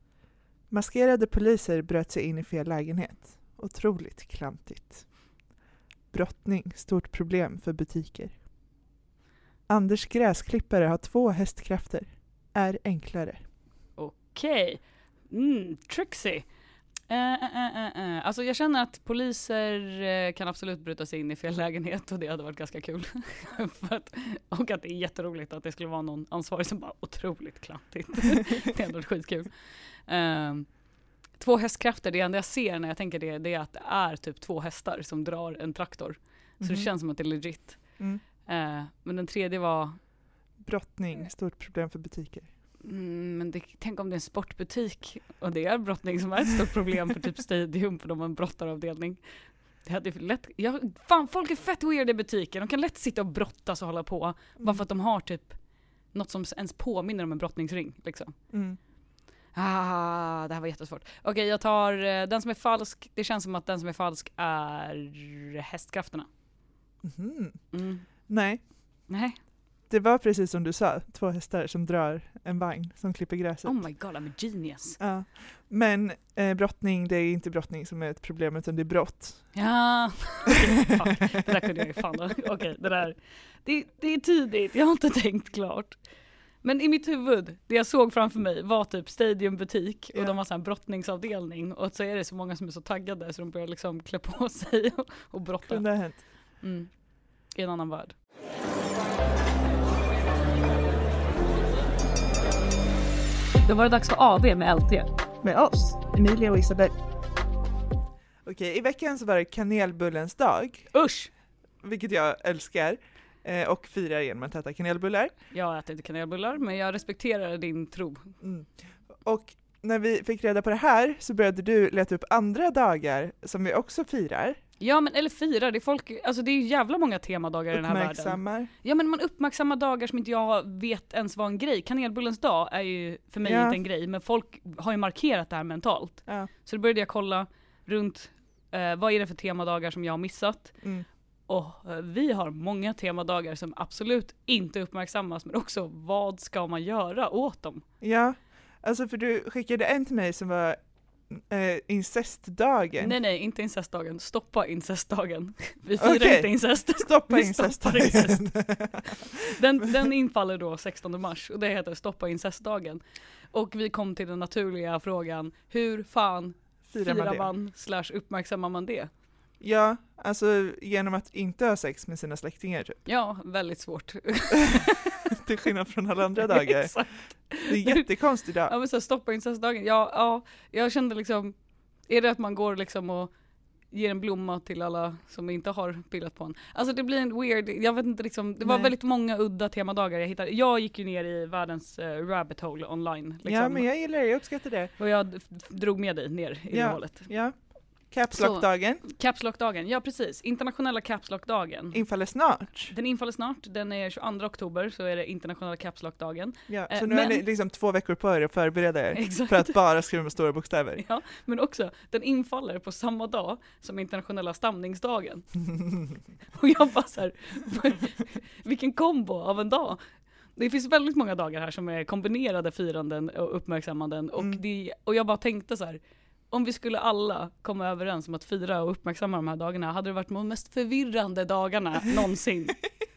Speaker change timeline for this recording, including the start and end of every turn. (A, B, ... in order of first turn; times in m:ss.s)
0:00.7-0:05.0 A
0:06.1-0:08.4 A
0:09.7-0:13.4 A
0:14.0-0:16.5 B
0:17.1-0:29.5 B
0:30.1-0:30.7 B
0:31.4-0:37.8 B
0:36.6-0:36.9 A
0:38.4-0:40.0 B
0:40.6-0:42.5 A
0:42.8-0:49.2 B
0:49.8-0:55.6 B
0:56.1-0:58.3 B
0:58.5-0:58.8 A
0:59.6-1:06.3 B
1:07.0-1:07.6 A
1:07.7-1:08.1 B
1:08.3-1:08.6 A
1:09.1-1:09.4 B
1:09.9-1:13.8 A
1:13.6-1:15.0 B
1:15.0-1:19.5 A
1:19.5-1:26.0 B
1:26.6-1:35.8 B
1:35.6-1:36.2 A
1:36.6-1:36.9 B
1:37.5-1:38.2 B
1:43.6-1:45.1 B
1:45.4-1:46.9 A
1:48.4-1:50.9 A
1:50.9-1:51.3 B
1:51.8-1:55.3 A
1:55.5-1:58.3 B
1:58.4-1:58.7 A
1:59.2-2:04.6 A
2:04.8-2:20.7 B
2:07.7-2:08.7 A
2:13.4-2:13.8 A
2:21.5-2:27.8 B
2:28.0-2:30.8 A
2:31.4-2:33.2 A
2:33.0-2:38.5 B
2:36.0-2:39.2 A
2:39.0-2:43.0 B
2:43.5-2:49.1 B
2:46.9-2:47.5 A
2:49.6-2:53.0 A
2:53.1-2:55.4 B
2:54.7-2:57.0 A
2:56.4-2:58.1 B
2:57.6-2:58.7 A
2:58.6-3:01.5 B
3:02.1-3:03.3 B
3:03.9-3:13.9 B
3:08.6-3:08.9 A
3:13.4-3:14.9 A
3:15.0-3:17.3 B
3:16.7-3:17.6 A
3:18.1-3:19.0 A
3:18.3-3:22.0 B
3:21.9-3:22.9 A
3:22.9-3:27.4 B
3:26.7-3:31.0 A
3:29.1-3:29.8 B
3:31.0-3:35.6 B
3:36.5-3:40.0 B
3:40.6-3:46.0 B
3:46.5-3:52.8 B